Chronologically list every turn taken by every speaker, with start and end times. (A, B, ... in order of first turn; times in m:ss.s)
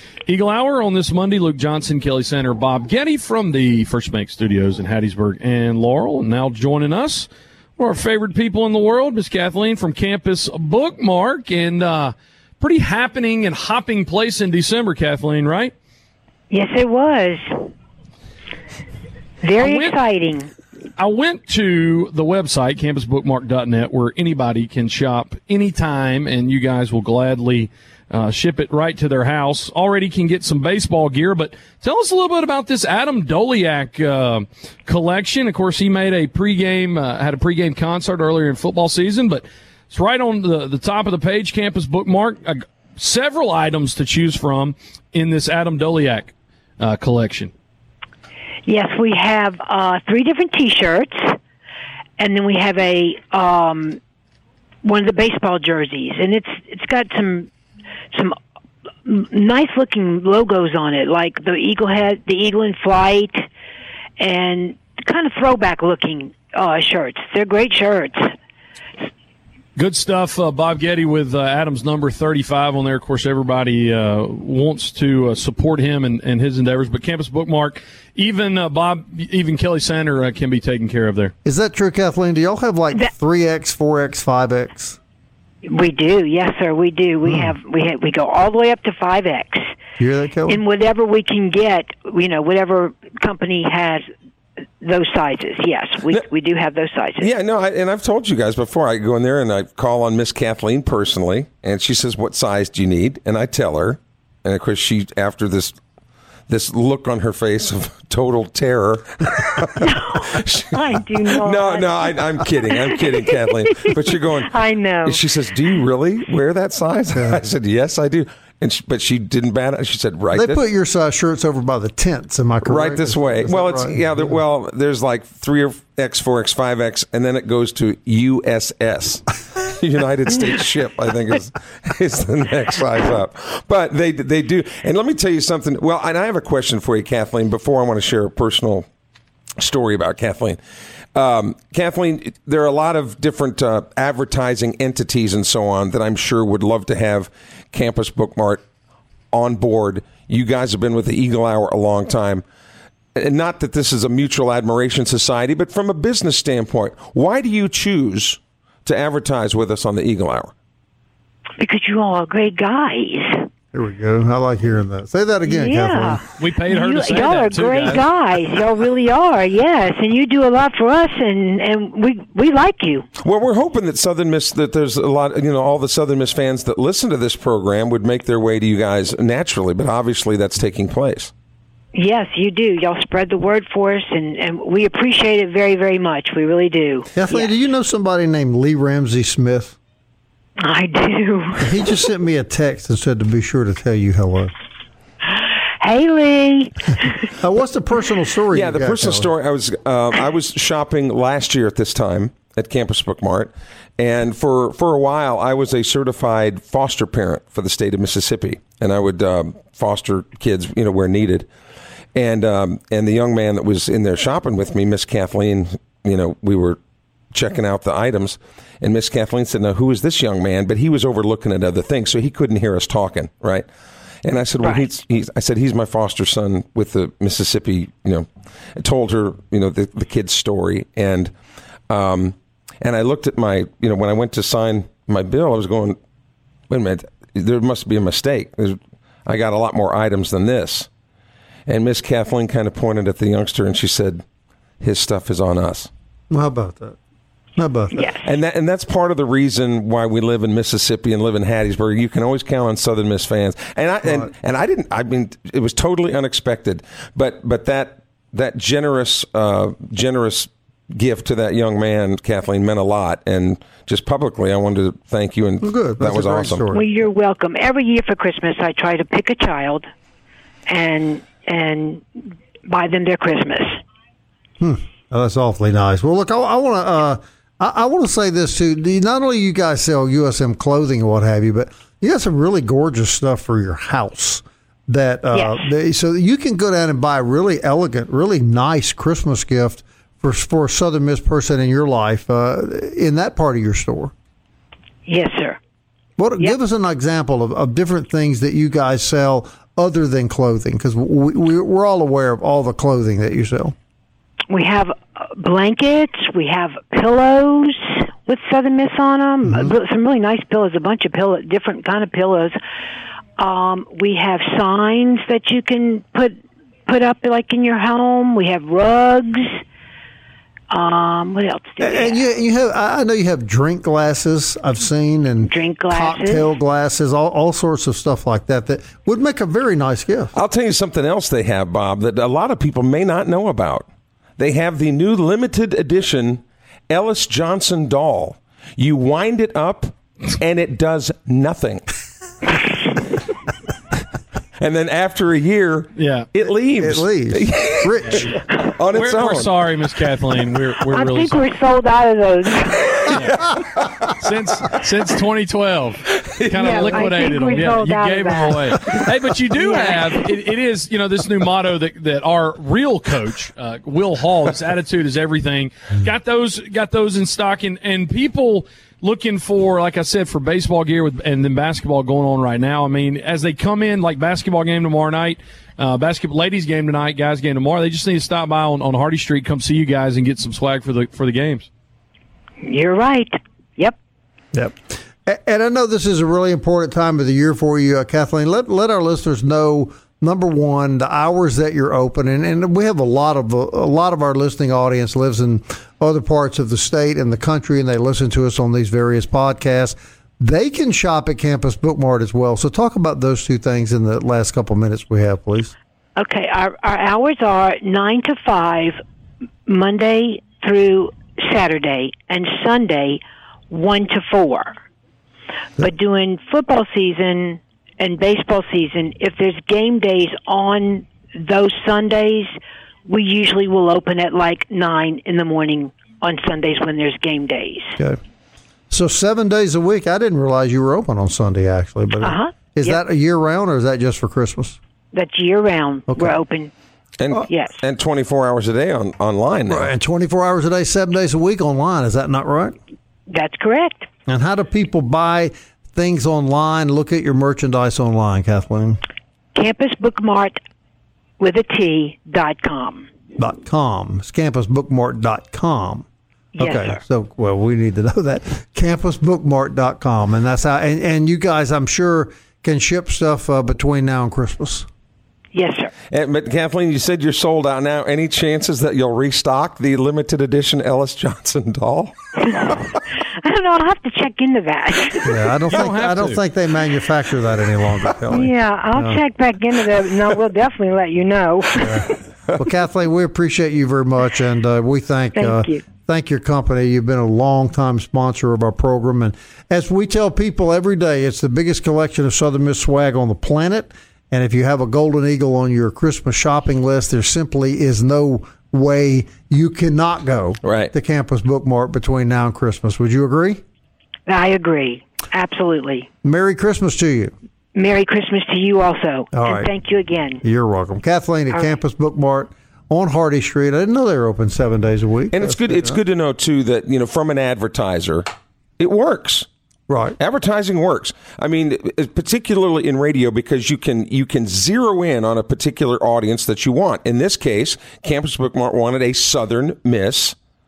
0:00.3-0:15.7 A
0:16.5-0:17.6 B
0:19.4-0:20.5 B
0:19.6-0:20.0 A
0:21.0-0:47.5 A
0:48.7-0:51.4 B
0:52.2-0:54.0 B
0:54.8-0:57.5 B
0:59.1-1:03.5 B
1:04.2-1:08.3 B
1:09.8-1:21.3 A
1:21.4-1:25.0 C
1:25.7-1:29.7 B
1:27.2-1:27.5 C
1:30.0-1:30.6 C
1:30.5-1:34.1 B
1:34.8-1:37.3 B
1:37.2-1:45.8 D
1:46.5-2:00.6 D
1:49.8-1:55.2 B
1:57.1-1:57.5 C
2:00.3-2:04.4 C
2:02.6-2:18.9 D
2:19.6-2:20.6 D
2:21.2-2:28.6 D
2:29.3-2:32.4 D
2:33.2-2:40.5 D
2:41.6-2:43.5 B
2:43.7-2:46.2 C
2:45.4-2:53.1 B
2:46.4-2:48.0 A
2:53.2-3:01.3 D
3:01.9-3:07.5 B
3:07.2-3:09.8 C
3:10.6-3:12.0 B
3:11.6-3:14.5 C
3:15.8-3:17.3 B
3:17.4-3:19.3 C
3:18.5-3:31.5 D
3:32.2-3:36.8 D
3:37.3-3:43.7 D
3:44.2-3:51.3 D
3:44.6-3:44.9 B
3:51.9-3:56.0 D
3:56.7-4:00.9 D
4:01.7-4:04.2 D
4:04.8-4:05.9 D
4:06.3-4:07.0 C
4:07.6-4:08.0 C
4:07.9-4:08.2 B
4:08.2-4:26.7 D
4:14.0-4:14.3 C
4:25.6-4:26.9 C
4:26.7-4:29.9 B
4:30.7-4:33.8 B
4:34.6-4:54.1 C
4:45.3-4:45.7 B
4:55.1-4:55.6 B
4:56.2-5:03.8 C
5:04.5-5:12.6 B
5:09.4-5:09.7 C
5:13.4-5:19.6 B
5:20.7-5:22.2 B
5:21.8-5:30.3 C
5:25.5-5:26.5 B
5:30.4-5:33.9 D
5:34.4-5:41.8 D
5:44.6-5:49.5 D
5:46.0-5:46.3 A
5:46.8-5:48.4 C
5:48.9-5:51.5 A
5:50.9-5:53.2 B
5:53.1-5:53.4 A
5:53.3-5:54.2 D
5:54.2-6:21.7 A
5:56.2-5:57.0 D
5:56.5-5:58.8 B
5:59.5-6:00.2 B
6:22.6-6:24.0 B
6:24.5-6:45.8 C
6:46.2-6:49.0 B
6:49.7-6:54.8 B
6:55.8-7:02.5 B
7:03.1-7:08.0 B
7:08.9-7:14.8 C
7:12.2-7:13.0 B
7:15.1-7:16.7 B
7:16.1-7:16.4 C
7:17.2-7:19.9 D
7:17.4-7:17.8 B
7:19.7-7:22.8 C
7:23.3-7:24.1 B
7:24.3-7:29.0 C
7:29.6-7:30.6 B
7:31.4-7:33.1 B
7:33.4-7:36.1 C
7:36.6-7:37.0 B
7:36.6-7:44.9 C
7:45.5-7:45.9 B
7:46.1-7:52.2 D
7:52.4-7:52.9 B
7:53.4-7:55.4 B
7:55.2-7:59.2 C
7:55.7-7:56.4 A
7:58.3-8:02.1 B
8:01.8-8:02.1 C
8:02.6-8:23.6 C
8:05.4-8:05.8 B
8:20.6-8:20.9 D
8:24.3-8:26.1 B
8:26.2-8:27.3 C
8:27.8-8:30.4 B
8:29.3-8:29.7 C
8:30.4-8:36.0 C
8:35.3-8:38.3 D
8:38.8-8:39.5 D
8:39.9-8:40.2 C
8:40.2-8:50.4 D